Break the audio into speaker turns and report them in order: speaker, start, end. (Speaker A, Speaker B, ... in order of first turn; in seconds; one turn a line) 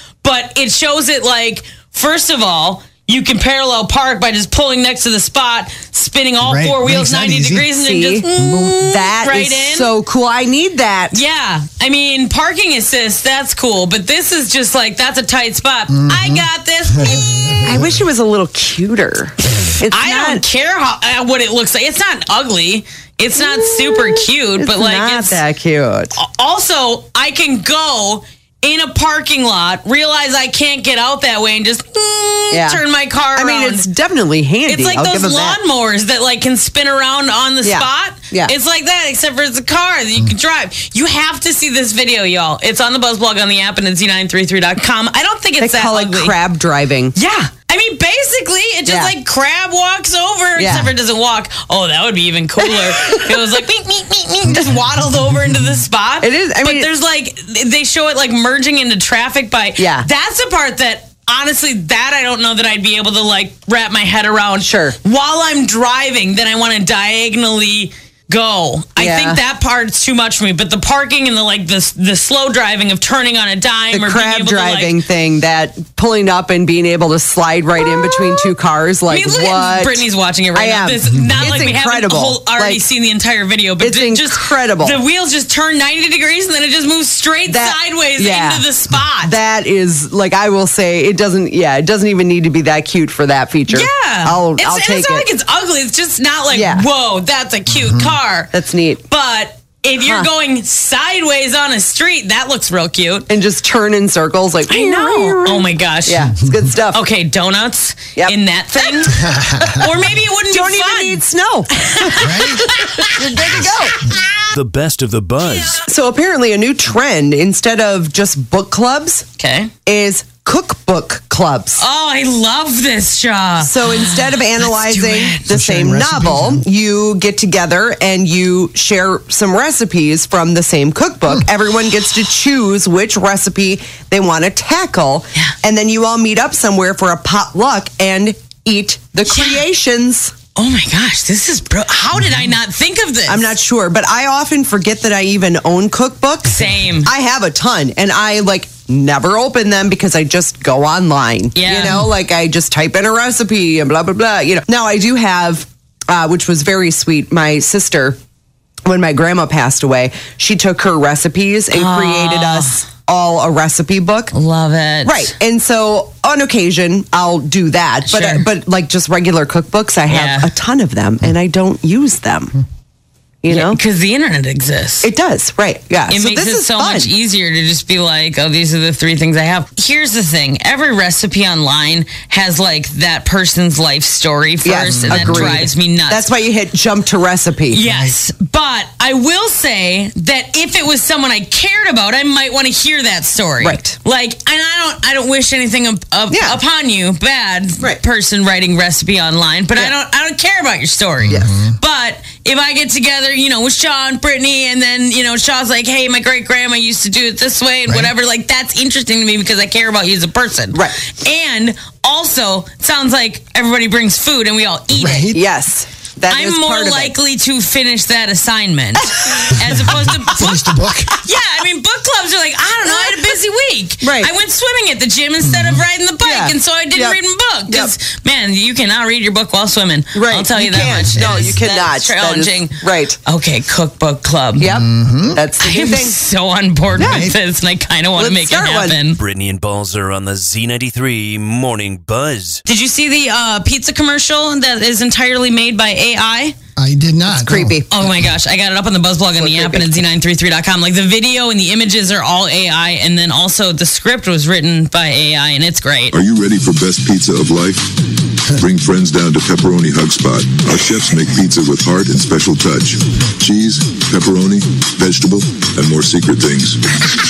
Speaker A: 0.2-9.9
Speaker B: 6.4-7.7
Speaker C: 7.7-8.3
Speaker B: 8.4-8.8
Speaker C: 8.8-11.2
Speaker A: 11.1-17.6
Speaker B: 15.9-17.6
Speaker C: 17.6-20.4
Speaker A: 19.9-25.4
Speaker C: 23.4-26.1
Speaker A: 26.1-33.9
Speaker C: 32.5-32.8
Speaker C: 33.4-35.6
Speaker A: 34.7-46.3
Speaker C: 37.6-38.5
Speaker C: 45.6-47.1
Speaker A: 47.1-75.0
Speaker C: 48.9-49.1
Speaker C: 50.6-50.9
Speaker C: 52.7-53.2
Speaker C: 56.2-56.9
Speaker C: 59.8-60.1
Speaker C: 64.6-65.0
Speaker C: 69.0-69.4
Speaker C: 73.9-82.8
Speaker A: 79.1-89.3
Speaker C: 83.8-85.0
Speaker C: 87.5-88.6
Speaker C: 89.2-95.3
Speaker A: 93.7-98.5
Speaker C: 96.5-96.8
Speaker B: 97.8-98.1
Speaker C: 98.5-99.0
Speaker A: 99.1-103.3
Speaker C: 100.0-100.3
Speaker C: 103.3-107.0
Speaker A: 104.7-106.3
Speaker A: 106.9-111.2
Speaker B: 109.1-109.8
Speaker C: 110.5-112.4
Speaker A: 111.8-114.2
Speaker B: 112.2-112.8
Speaker C: 113.0-114.0
Speaker D: 114.5-115.8
Speaker C: 115.8-119.2
Speaker A: 119.4-119.7
Speaker C: 119.8-121.8
Speaker A: 121.8-125.5
Speaker C: 123.6-140.3
Speaker B: 125.5-126.6
Speaker A: 139.3-139.6
Speaker A: 140.6-143.5
Speaker C: 143.3-158.2
Speaker A: 146.4-147.1
Speaker A: 151.5-152.0
Speaker C: 158.8-164.3
Speaker A: 161.7-162.8
Speaker A: 164.3-165.3
Speaker C: 165.0-172.6
Speaker A: 168.1-168.4
Speaker A: 170.1-170.5
Speaker C: 173.4-173.8
Speaker A: 173.5-175.1
Speaker C: 175.0-177.1
Speaker A: 176.1-186.2
Speaker C: 184.6-187.8
Speaker B: 184.8-185.6
Speaker A: 187.7-215.3
Speaker B: 187.8-188.1
Speaker C: 193.6-193.9
Speaker C: 196.3-196.6
Speaker B: 201.2-201.7
Speaker B: 214.9-215.4
Speaker C: 215.3-217.1
Speaker A: 216.3-234.7
Speaker B: 219.7-221.2
Speaker C: 224.0-224.3
Speaker B: 225.4-225.8
Speaker C: 226.2-227.9
Speaker C: 230.1-233.2
Speaker B: 231.2-231.4
Speaker C: 234.6-236.2
Speaker B: 234.6-235.4
Speaker A: 235.6-239.2
Speaker C: 237.0-237.3
Speaker B: 237.0-237.3
Speaker C: 238.2-239.0
Speaker D: 239.2-242.6
Speaker A: 242.7-246.5
Speaker B: 246.8-247.8
Speaker C: 247.4-247.9
Speaker A: 247.9-256.1
Speaker C: 249.3-250.0
Speaker E: 256.1-257.9
Speaker E: 258.5-266.8